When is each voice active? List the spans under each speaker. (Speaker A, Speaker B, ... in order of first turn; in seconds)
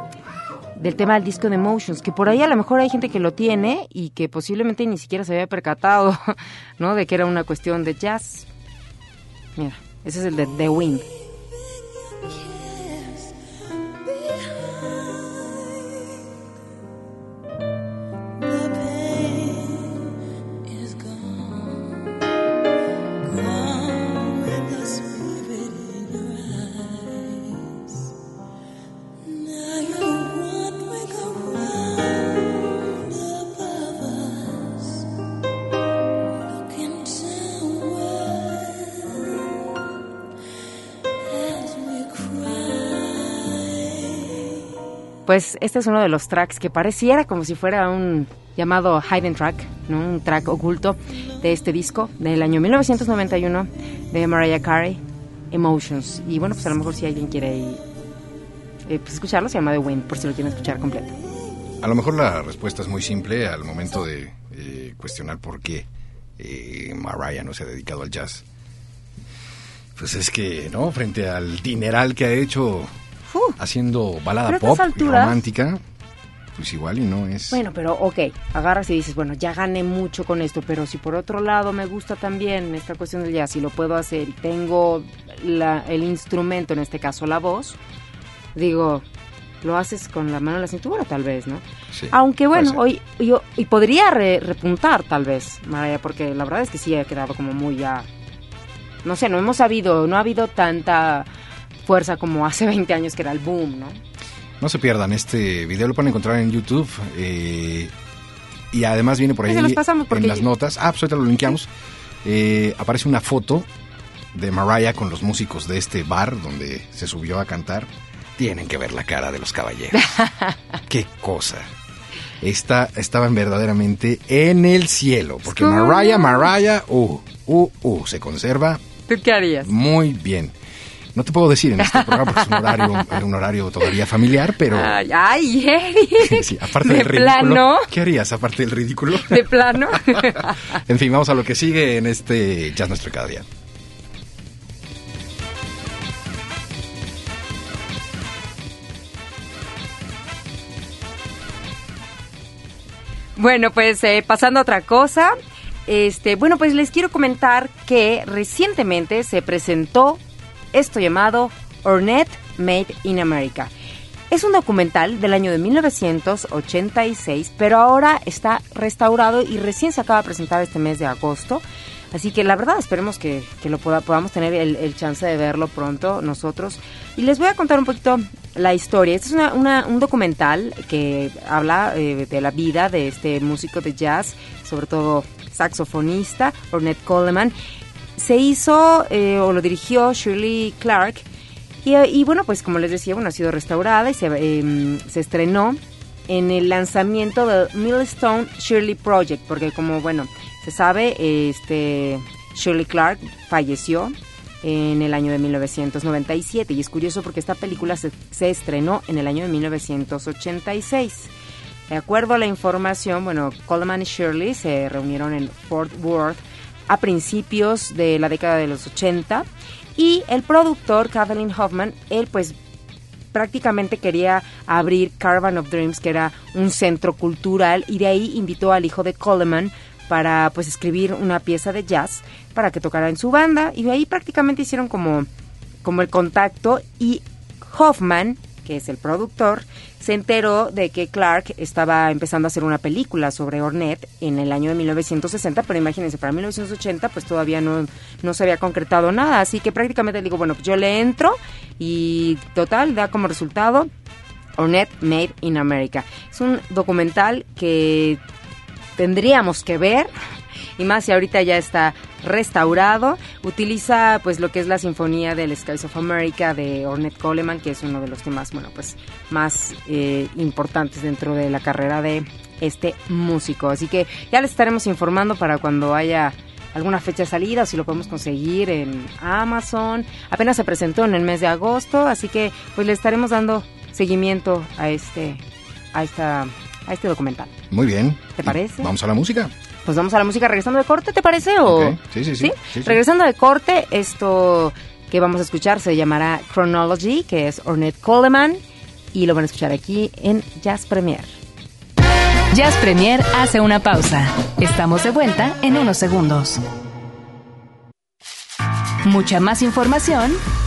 Speaker A: 0.8-8.5, 9.6-11.1, 45.3-57.8, 58.9-61.2, 73.3-73.6, 74.5-75.4, 77.5-87.8, 88.5-89.0, 89.6-98.1, 99.0-101.3, 101.8-104.0, 109.5-110.5, 120.0-120.6, 125.5-126.5, 129.1-129.7, 131.8-133.1, 134.7-137.9, 139.2-140.6, 153.4-155.3, 155.9-160.2, 160.7-163.7, 164.3-187.6, 188.2-191.3, 191.8-211.3, 211.9-222.6, 223.3-235.3, 235.8-253.9, 254.6-258.2, 259.0-260.1, 260.8-287.5, 288.4-288.9, 289.9-298.6, 299.1-301.3
Speaker B: 23.4-24.0, 24.7-26.9, 29.4-31.6, 302.5-306.6, 309.1-310.4
Speaker C: 61.8-65.9, 66.4-68.5, 70.0-72.9, 73.6-75.8, 76.5-77.6, 91.9-92.8, 104.6-107.9, 108.7-111.7, 112.2-113.7, 114.3-120.1, 120.9-121.7, 122.4-128.8, 129.7-130.6, 131.1-135.0, 136.2-143.5, 287.7-289.5, 291.7-293.0